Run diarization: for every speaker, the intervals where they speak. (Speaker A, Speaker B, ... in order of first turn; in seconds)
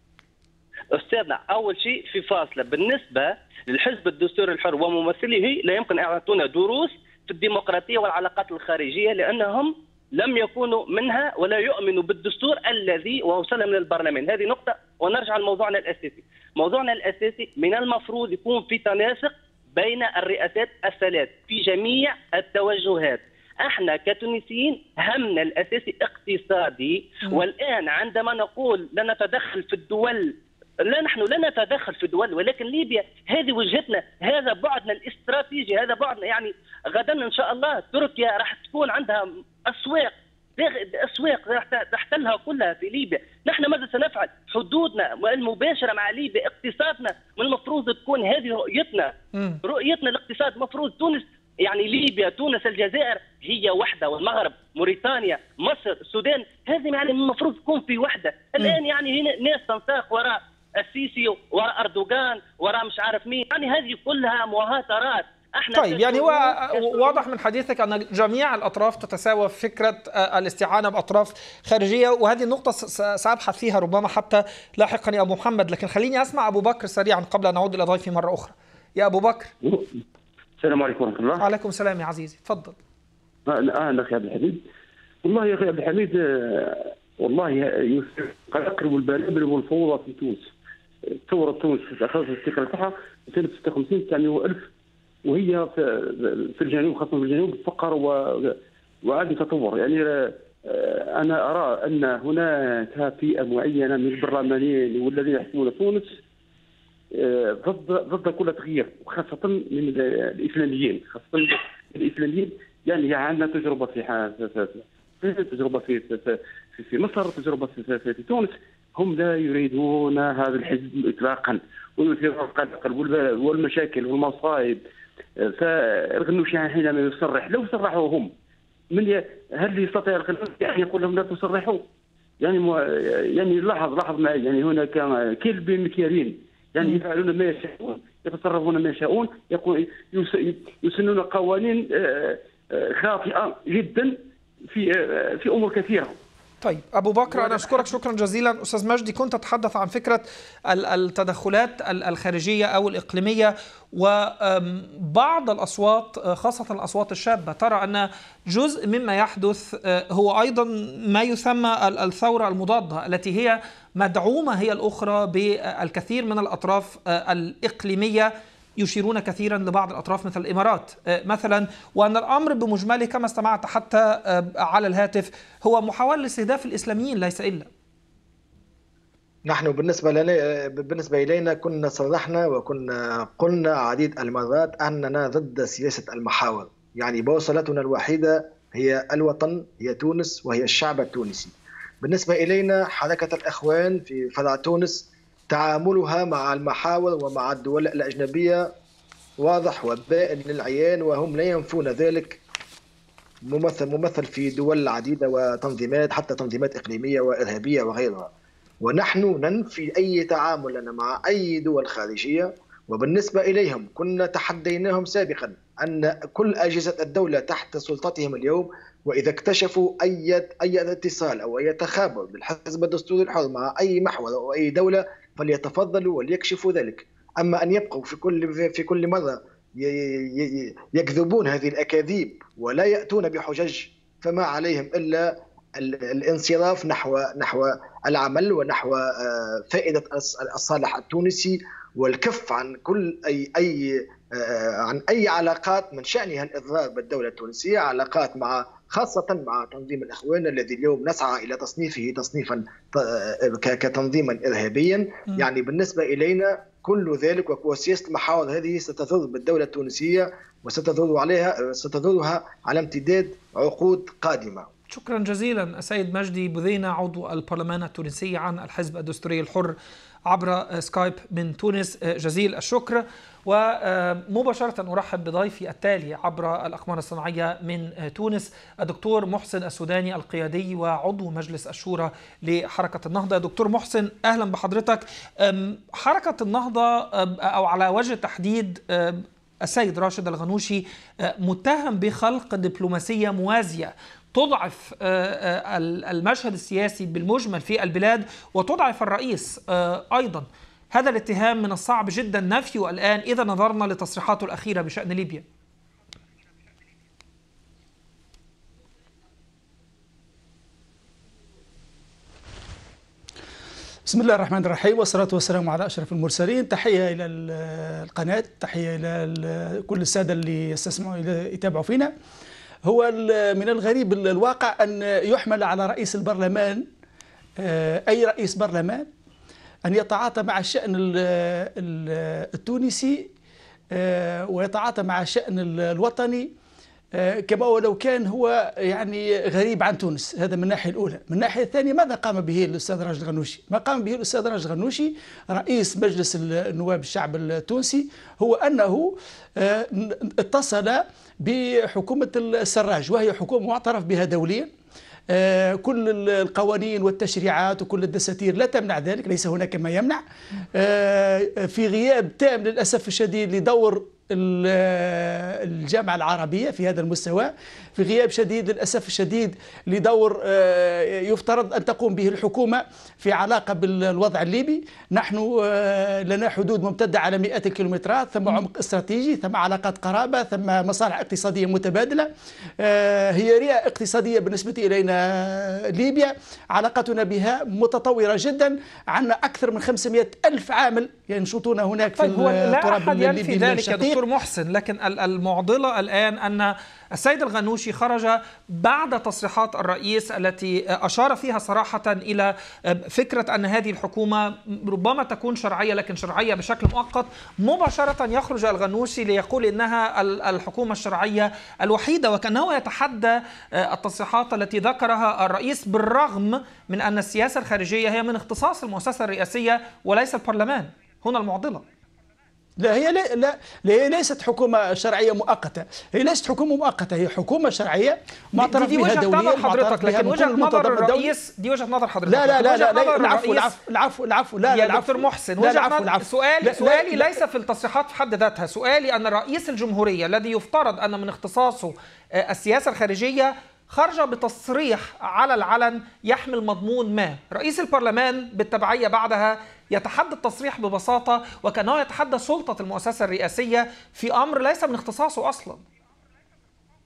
Speaker A: 0.9-49.1, 49.6-67.2
Speaker B: 49.3-49.6, 65.7-79.5, 81.4-82.8, 146.6-177.7, 264.9-305.4, 392.1-421.8, 428.6-433.7, 434.7-455.8
Speaker C: 79.6-79.9, 80.6-81.4, 83.5-84.6, 85.2-90.5, 91.3-94.7, 95.2-106.2, 107.1-124.8, 125.4-128.3, 128.9-131.9, 132.4-146.2, 147.3-147.7
Speaker D: 179.4-198.7, 199.4-202.4, 203.5-208.3, 208.8-264.7
Speaker E: 314.1-322.1, 322.9-326.9, 327.6-329.1, 329.9-333.3, 333.9-336.5, 337.1-354.7, 355.3-360.2, 360.8-394.2, 422.8-431.3, 432.3-437.4